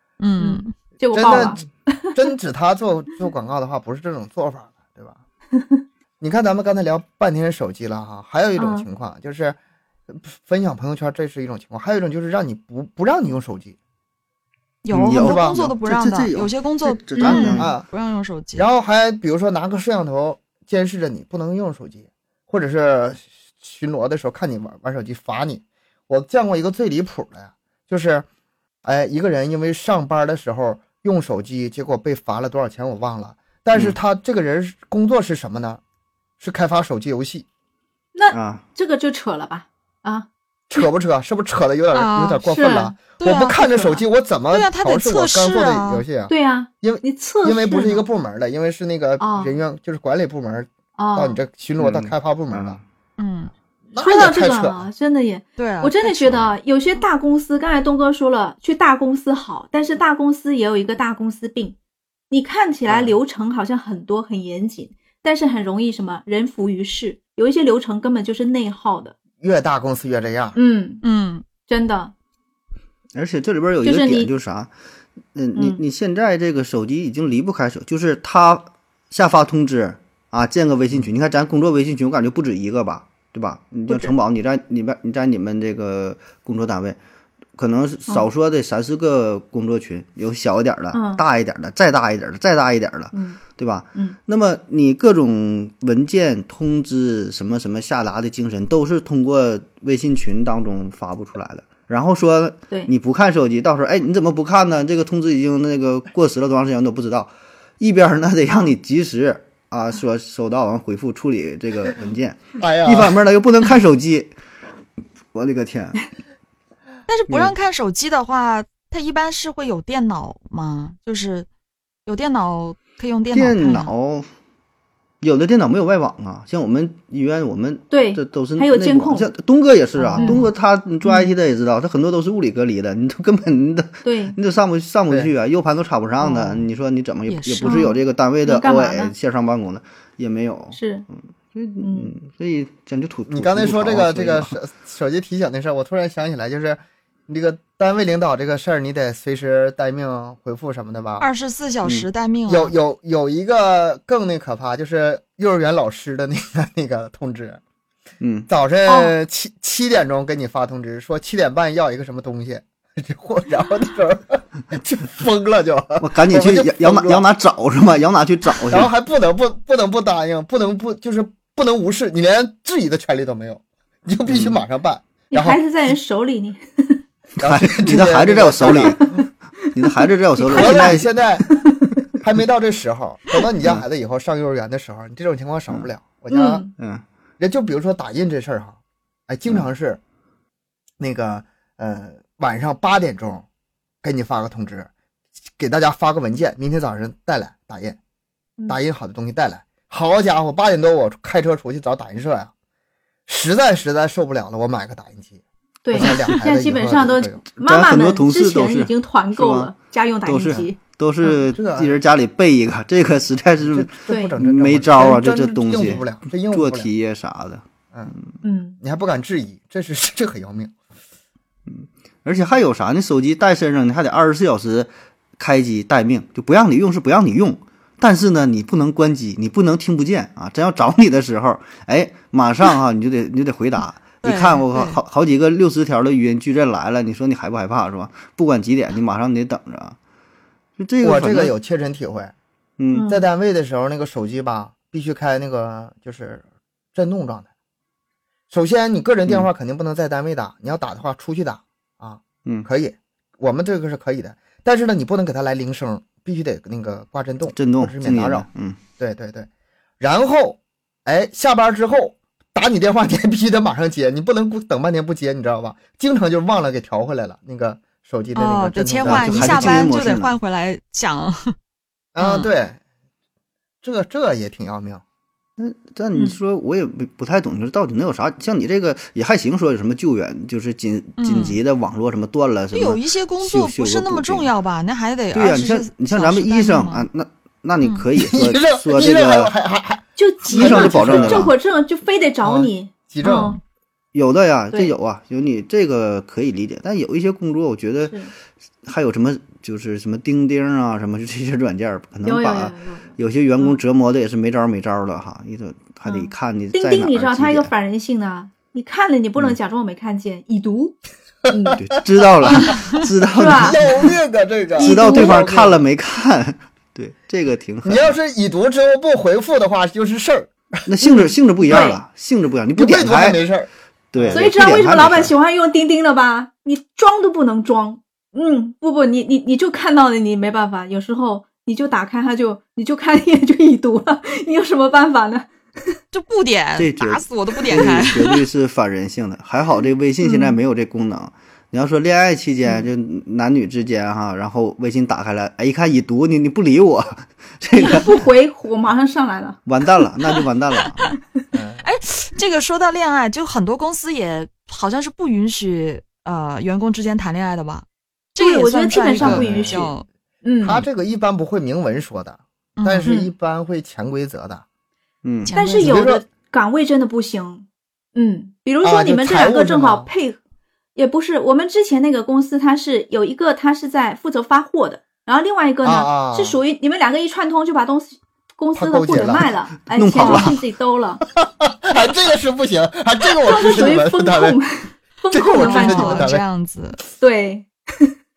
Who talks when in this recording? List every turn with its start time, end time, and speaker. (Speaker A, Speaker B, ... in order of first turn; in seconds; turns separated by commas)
Speaker A: 0.2-0.7, Speaker B: 0.4-2.1, Speaker C: 1.1-1.6, Speaker C: 2.1-5.2, Speaker B: 5.5-5.8, Speaker C: 6.2-9.6, Speaker B: 8.6-8.9, Speaker C: 10.1-13.8, Speaker A: 14.8-18.7, Speaker D: 14.9-17.7, Speaker C: 15.1-15.6, Speaker B: 17.1-17.6, Speaker C: 17.4-17.9, Speaker C: 18.6-28.2, Speaker C: 28.8-35.8, Speaker C: 36.4-37.5, Speaker B: 38.1-40.8, Speaker D: 38.3-38.6, Speaker C: 40.7-52.8, Speaker A: 41.9-42.4, Speaker B: 42.4-42.9, Speaker A: 43.2-44.0, Speaker A: 44.5-46.0, Speaker B: 46.3-48.0, Speaker B: 49.2-49.5, Speaker B: 51.0-51.4, Speaker D: 51.8-52.8, Speaker A: 53.2-53.5, Speaker C: 53.9-54.8, Speaker B: 54.0-61.8, Speaker A: 55.6-56.5, Speaker B: 62.3-69.1, Speaker C: 62.9-63.1, Speaker C: 69.4-70.5, Speaker B: 70.5-71.0, Speaker A: 71.0-71.4, Speaker B: 71.7-72.1, Speaker D: 73.1-74.7, Speaker B: 73.8-74.3, Speaker D: 75.3-87.0, Speaker B: 75.5-75.8, Speaker B: 83.9-84.1, Speaker D: 87.5-114.3, Speaker B: 90.9-91.2, Speaker B: 93.1-93.4, Speaker C: 112.6-113.2, Speaker D: 115.3-116.0, Speaker A: 117.1-121.5, Speaker A: 122.0-123.9, Speaker D: 123.3-124.3, Speaker D: 125.2-140.8, Speaker B: 127.9-129.3, Speaker A: 129.9-130.5, Speaker B: 130.2-130.5, Speaker B: 134.0-134.4, Speaker A: 136.2-136.7, Speaker A: 137.3-137.9, Speaker B: 137.6-139.1, Speaker B: 140.7-141.0, Speaker D: 141.5-144.5, Speaker B: 141.8-142.1, Speaker C: 143.3-151.3, Speaker A: 151.2-152.7, Speaker C: 152.5-157.6, Speaker D: 158.2-158.5, Speaker C: 158.5-167.2, Speaker B: 158.8-159.1, Speaker D: 166.0-168.9, Speaker C: 168.7-175.6, Speaker D: 174.3-174.6, Speaker B: 175.3-177.0, Speaker D: 177.4-179.1, Speaker C: 177.4-179.0, Speaker D: 179.7-181.1, Speaker B: 180.4-181.9, Speaker C: 180.5-181.4, Speaker C: 182.2-186.6, Speaker B: 186.3-186.7, Speaker D: 186.8-187.0, Speaker C: 187.4-190.0, Speaker C: 191.0-193.4, Speaker C: 194.0-194.9, Speaker C: 195.6-198.0, Speaker C: 198.7-202.5, Speaker C: 203.3-205.4, Speaker B: 205.8-210.8, Speaker C: 205.9-207.4, Speaker D: 207.6-209.7, Speaker D: 210.2-218.2, Speaker C: 211.4-212.0, Speaker C: 213.6-216.9, Speaker B: 214.1-214.3, Speaker B: 218.4-218.8, Speaker C: 218.8-220.7, Speaker D: 221.7-239.9, Speaker A: 234.2-235.0, Speaker D: 240.8-241.5, Speaker C: 241.0-242.3, Speaker D: 242.8-243.1, Speaker B: 242.9-243.2, Speaker C: 243.1-246.4, Speaker C: 246.9-247.5, Speaker C: 248.5-258.5, Speaker D: 257.5-258.8, Speaker C: 259.0-259.5, Speaker C: 260.0-269.9, Speaker A: 268.3-271.5, Speaker D: 269.0-270.4, Speaker C: 272.1-272.8, Speaker A: 272.2-272.5, Speaker C: 273.8-275.0, Speaker D: 275.6-284.5, Speaker A: 281.2-281.6, Speaker A: 282.7-287.1, Speaker D: 285.3-289.5, Speaker C: 288.1-291.5, Speaker B: 290.2-293.6, Speaker D: 290.5-291.5, Speaker C: 292.4-293.5, Speaker A: 293.2-293.6, Speaker D: 294.1-298.2, Speaker B: 298.1-298.3, Speaker D: 298.8-307.7, Speaker B: 302.2-303.8, Speaker B: 306.0-311.0, Speaker B: 311.5-311.8, Speaker C: 311.5-311.8, Speaker D: 311.8-314.1, Speaker B: 312.4-313.8, Speaker C: 313.5-315.8, Speaker B: 314.8-315.5, Speaker D: 314.8-318.2, Speaker C: 317.8-320.5, Speaker D: 320.9-323.4, Speaker B: 321.1-322.0, Speaker C: 322.8-324.5, Speaker D: 324.1-325.3, Speaker B: 324.3-336.0, Speaker A: 336.1-338.4, Speaker D: 336.8-348.2, Speaker B: 340.2-340.6, Speaker B: 347.7-349.6, Speaker D: 349.6-351.1, Speaker C: 351.5-351.9, Speaker A: 351.8-360.1, Speaker B: 358.4-359.9, Speaker C: 359.2-359.9, Speaker B: 360.4-360.8, Speaker C: 360.6-364.6, Speaker A: 362.8-363.1, Speaker B: 363.0-363.3, Speaker D: 365.2-365.5, Speaker A: 365.4-366.0, Speaker B: 365.5-370.4, Speaker C: 365.8-366.2, Speaker C: 368.8-370.1, Speaker B: 370.9-381.2, Speaker C: 375.8-376.6, Speaker C: 378.7-379.5, Speaker D: 379.9-380.6, Speaker A: 380.2-380.5, Speaker C: 381.4-384.6, Speaker B: 383.4-386.3, Speaker C: 385.3-386.4, Speaker A: 385.5-387.0, Speaker B: 387.2-388.1